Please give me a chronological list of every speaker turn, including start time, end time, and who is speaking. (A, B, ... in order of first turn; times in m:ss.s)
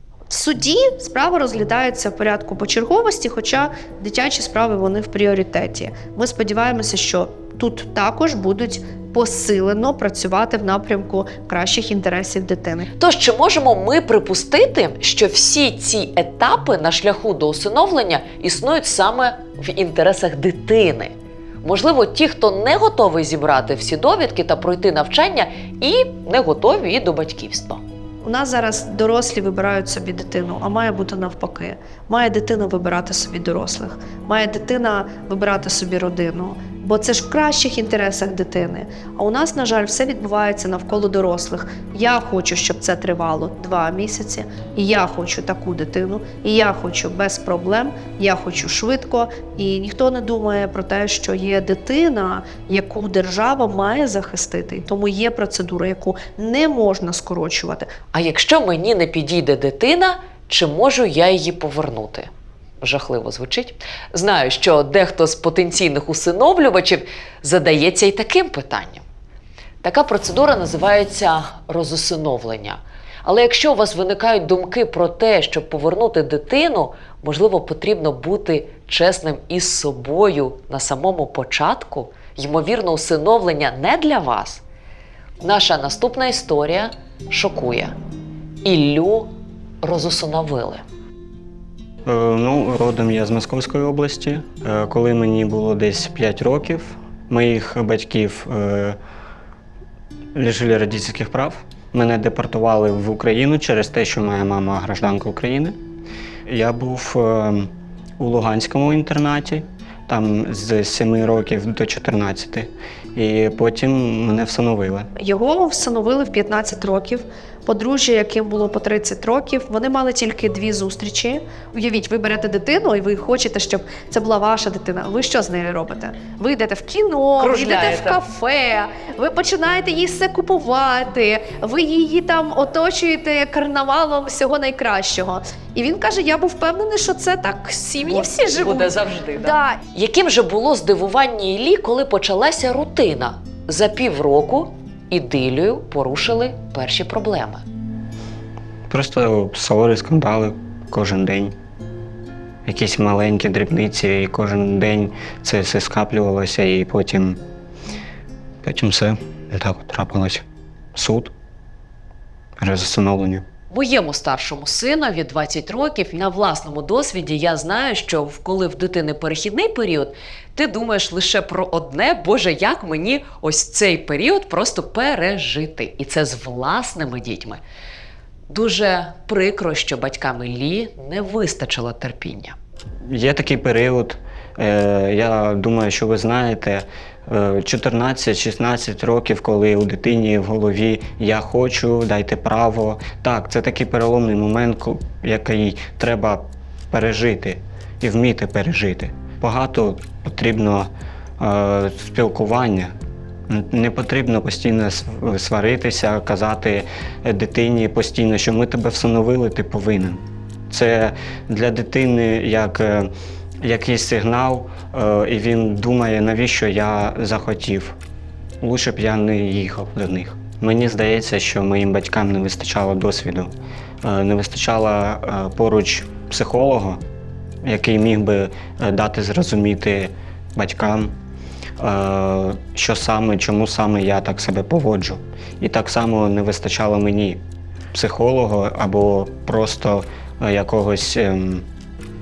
0:00.3-0:12.9 A
0:13.0-0:27.8 B
0:28.2-0:57.9 A
0:58.1-1:02.3 B
1:02.8-1:09.0 B
1:09.8-1:24.6 B
1:25.4-1:27.9 B
1:28.6-1:29.3 B
1:29.8-1:30.8 B
1:32.0-1:39.0 C
1:40.3-1:45.8 C
1:46.4-1:55.1 C
1:55.2-2:19.8 A
2:07.4-2:08.2 B
2:18.1-2:27.6 B
2:28.9-2:31.5 C
2:32.6-2:37.4 C
2:38.6-2:41.3 C
2:42.6-2:43.4 C
2:43.7-2:57.6 B
2:58.5-3:02.6 B
3:03.0-3:22.9 C
3:23.5-3:38.0 C
3:38.6-3:47.0 C
3:47.6-3:51.2 C
3:51.8-4:01.7 C